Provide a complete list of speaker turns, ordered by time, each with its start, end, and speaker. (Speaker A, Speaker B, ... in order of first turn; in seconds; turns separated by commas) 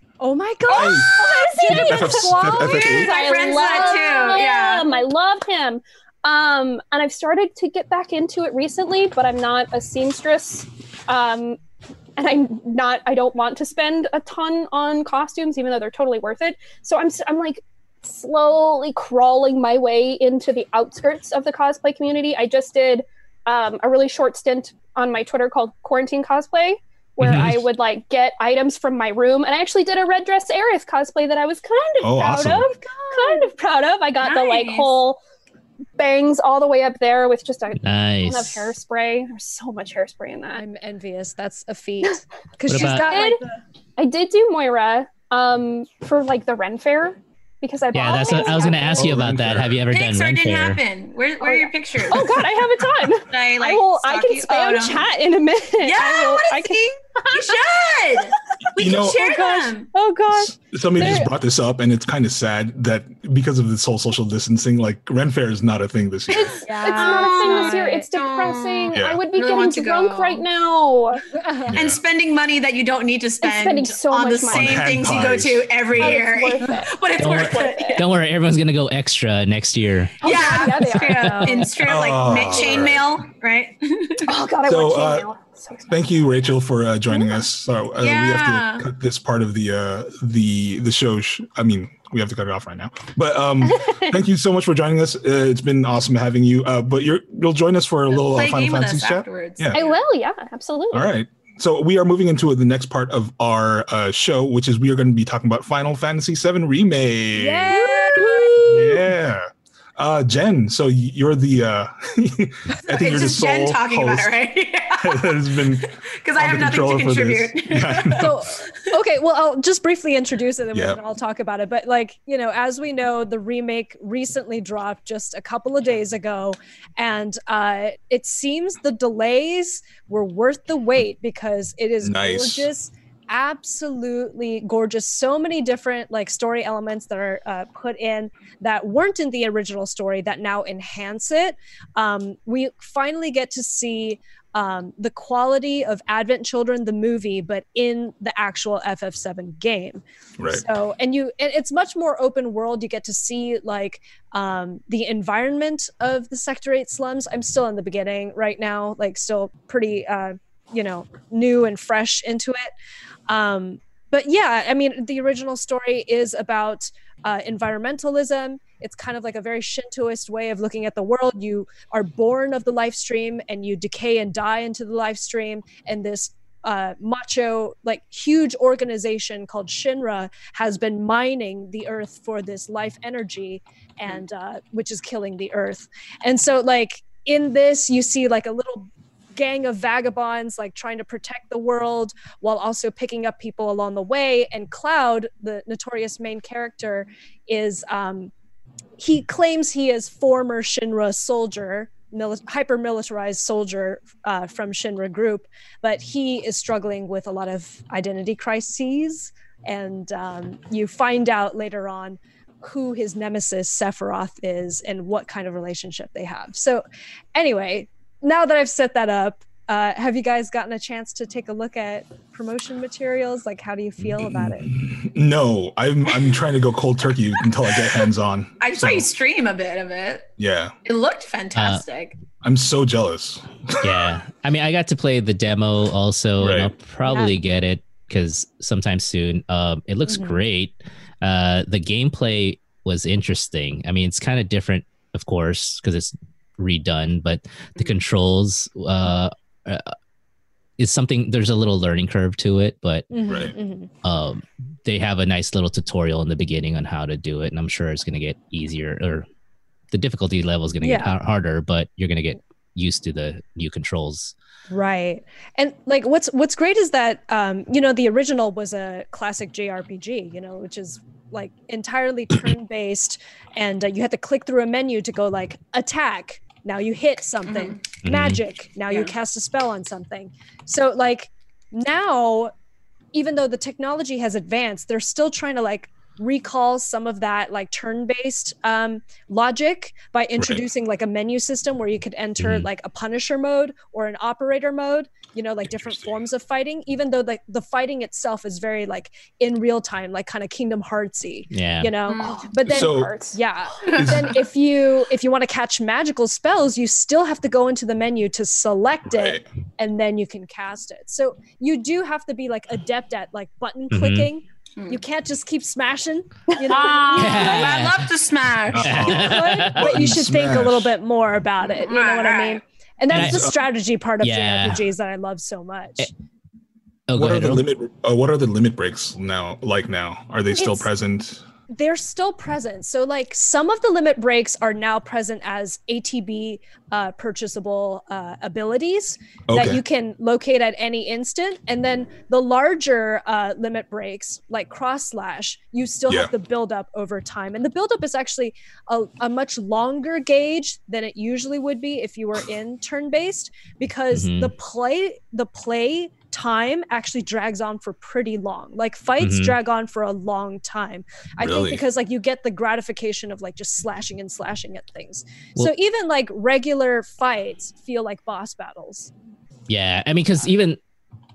Speaker A: 0.2-2.9, Speaker B: 0.7-3.1, Speaker C: 0.8-11.6, Speaker D: 2.5-4.9, Speaker C: 12.2-35.2, Speaker E: 27.2-27.6, Speaker B: 32.0-32.6, Speaker A: 32.6-33.5, Speaker D: 34.2-35.0, Speaker C: 36.0-40.6, Speaker E: 37.8-38.7, Speaker A: 40.5-43.6, Speaker E: 42.7-43.1, Speaker C: 42.9-43.4, Speaker C: 44.0-49.2, Speaker E: 47.9-50.8, Speaker B: 49.0-49.8, Speaker D: 49.9-52.5, Speaker C: 51.4-57.6, Speaker D: 53.2-55.1, Speaker D: 55.8-59.9, Speaker B: 58.8-59.2, Speaker C: 59.2-61.3, Speaker B: 60.4-66.6, Speaker C: 66.3-71.3, Speaker A: 66.6-68.0, Speaker D: 66.9-70.4, Speaker B: 68.9-69.2, Speaker A: 71.3-71.8, Speaker B: 71.7-72.0, Speaker D: 71.7-78.1, Speaker C: 73.4-75.0, Speaker B: 74.5-76.2, Speaker C: 76.0-78.0, Speaker E: 77.2-80.5, Speaker C: 80.2-81.7, Speaker D: 80.2-84.3, Speaker A: 80.3-81.7, Speaker B: 81.8-83.2, Speaker C: 84.2-86.0, Speaker B: 84.7-85.3, Speaker B: 85.9-99.8, Speaker C: 87.1-87.4, Speaker D: 88.0-88.9, Speaker D: 98.1-100.0, Speaker C: 99.7-101.1, Speaker B: 100.9-107.8, Speaker A: 107.3-109.0, Speaker C: 107.8-108.8, Speaker B: 108.7-114.3, Speaker D: 112.9-118.3, Speaker B: 115.0-118.4, Speaker A: 118.1-162.7, Speaker B: 120.7-121.0, Speaker B: 132.0-132.7, Speaker B: 150.4-150.7, Speaker A: 163.3-198.3, Speaker A: 199.0-224.8, Speaker B: 224.2-229.1, Speaker D: 228.6-230.3, Speaker B: 230.4-230.8, Speaker D: 230.8-232.2, Speaker E: 231.6-231.8, Speaker B: 232.4-234.1, Speaker E: 233.8-249.9, Speaker B: 236.4-236.7, Speaker A: 237.1-237.4, Speaker A: 240.1-240.4, Speaker E: 250.8-253.1, Speaker A: 253.1-253.9, Speaker B: 253.3-253.6, Speaker E: 254.0-259.2, Speaker E: 259.9-264.3, Speaker A: 260.8-261.2, Speaker A: 264.7-282.5, Speaker D: 277.5-277.8, Speaker E: 278.0-278.4, Speaker A: 283.1-317.8, Speaker B: 290.4-290.6, Speaker E: 292.4-292.7, Speaker B: 295.7-296.2, Speaker E: 301.5-301.9, Speaker D: 302.1-302.5, Speaker C: 302.6-303.4, Speaker B: 302.6-303.1, Speaker B: 309.1-309.4, Speaker E: 313.9-314.3, Speaker D: 316.6-319.2, Speaker E: 317.1-318.1, Speaker B: 318.7-321.0, Speaker E: 318.8-320.0, Speaker A: 319.0-326.1, Speaker D: 321.8-322.6, Speaker E: 323.1-323.4, Speaker B: 323.1-323.6, Speaker E: 324.2-324.9, Speaker E: 327.1-327.6, Speaker B: 327.1-331.4, Speaker A: 330.5-330.9, Speaker A: 331.7-369.1, Speaker B: 339.5-339.8, Speaker E: 354.1-354.5, Speaker E: 359.2-359.6, Speaker B: 361.4-361.8, Speaker E: 369.7-370.8